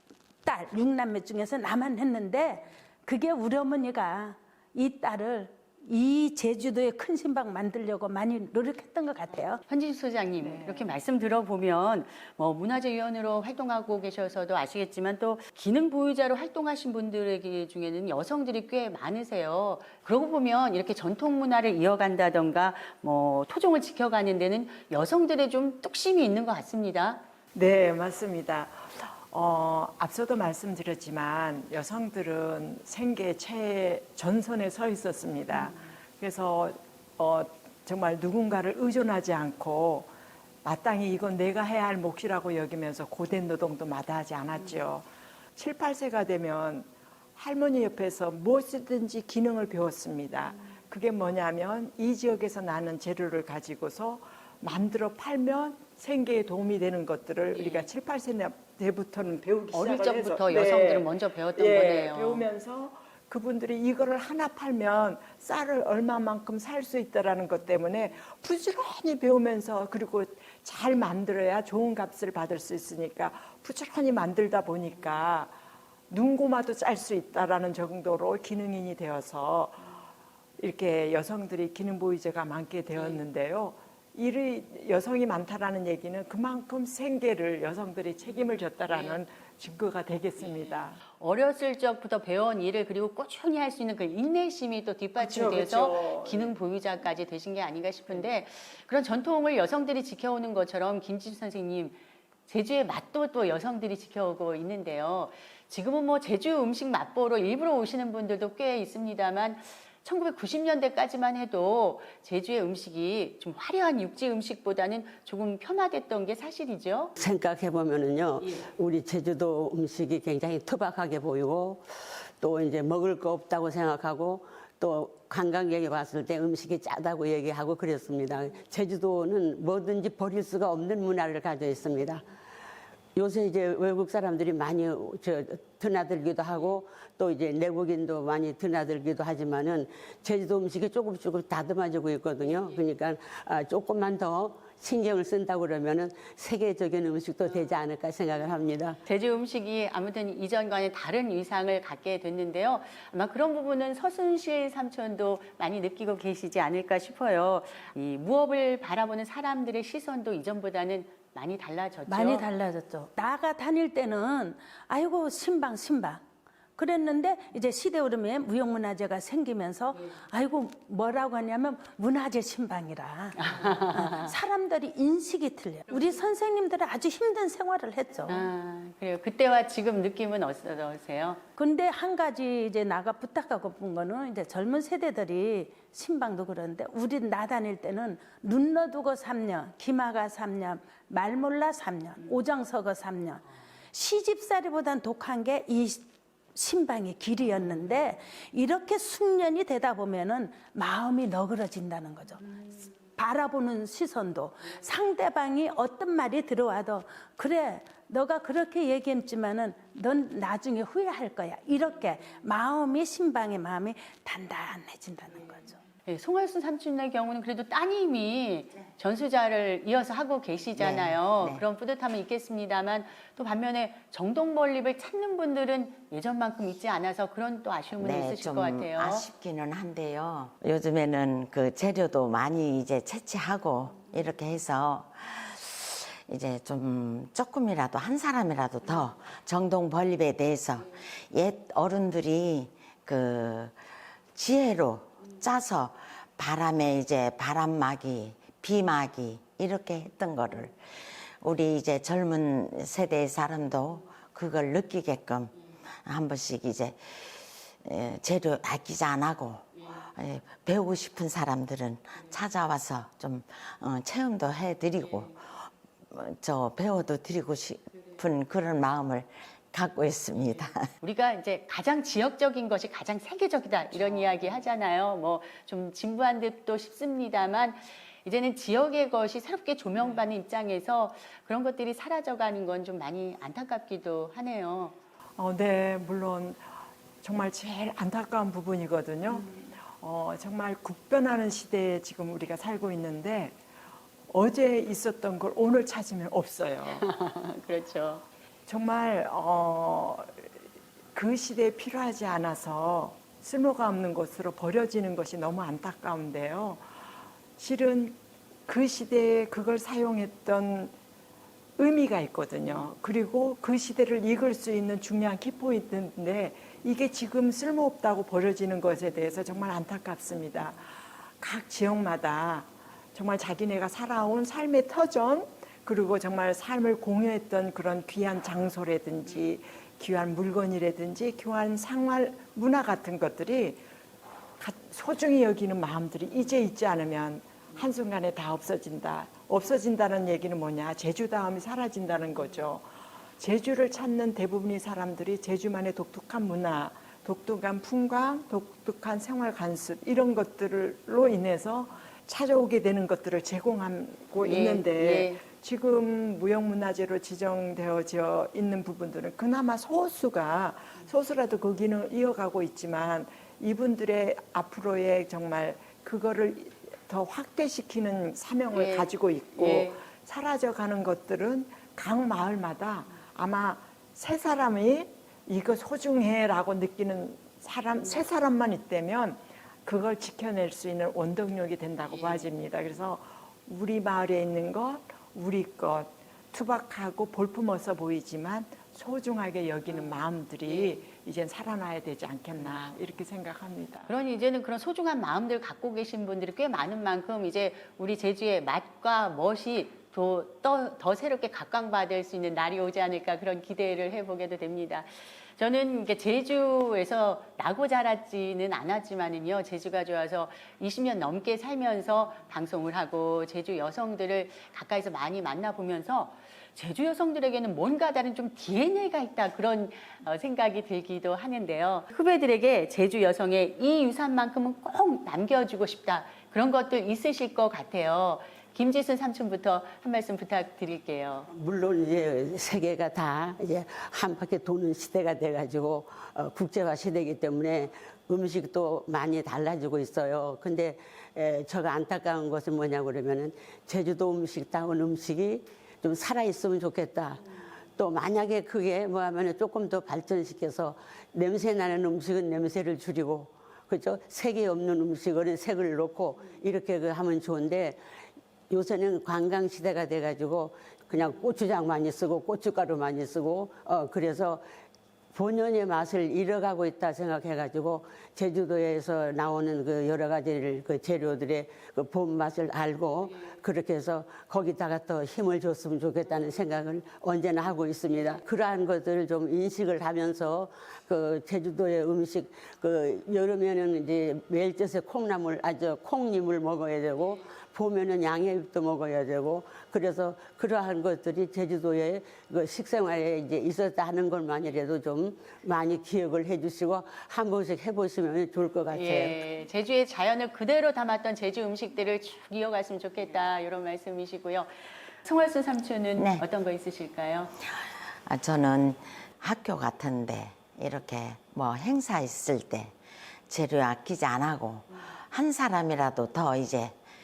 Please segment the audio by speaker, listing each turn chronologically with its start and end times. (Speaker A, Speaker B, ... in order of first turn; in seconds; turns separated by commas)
Speaker A: 0.5-9.6, Speaker B: 9.7-27.2, Speaker C: 27.6-40.1, Speaker C: 40.6-45.0, Speaker C: 45.6-75.5, Speaker B: 57.6-57.9, Speaker B: 59.7-62.5, Speaker C: 76.1-80.0, Speaker C: 80.6-91.0, Speaker B: 91.2-117.2, Speaker C: 95.2-96.5, Speaker D: 117.2-121.8, Speaker D: 122.4-132.2, Speaker D: 133.2-149.0, Speaker B: 149.1-162.4, Speaker A: 162.1-166.2, Speaker A: 166.8-178.5, Speaker B: 173.4-174.3, Speaker B: 178.3-181.4, Speaker A: 181.6-202.6, Speaker A: 203.2-215.8, Speaker B: 216.1-229.2, Speaker E: 220.8-221.6, Speaker E: 228.0-243.8, Speaker E: 244.3-270.9, Speaker B: 271.0-285.0, Speaker C: 285.4-286.6, Speaker C: 287.2-293.6, Speaker C: 294.3-297.1, Speaker B: 297.0-298.2, Speaker C: 298.7-300.3, Speaker C: 301.1-306.9, Speaker C: 307.6-310.9, Speaker C: 311.8-320.9, Speaker C: 321.4-333.8, Speaker C: 334.6-342.8, Speaker C: 343.4-394.1, Speaker B: 354.4-355.4, Speaker B: 368.7-370.0, Speaker B: 394.1-431.5, Speaker D: 431.5-458.0, Speaker D: 458.7-464.6, Speaker D: 465.3-499.4, Speaker B: 498.9-504.7, Speaker B: 505.2-507.5, Speaker E: 506.2-506.4, Speaker E: 508.2-512.9, Speaker E: 513.5-517.0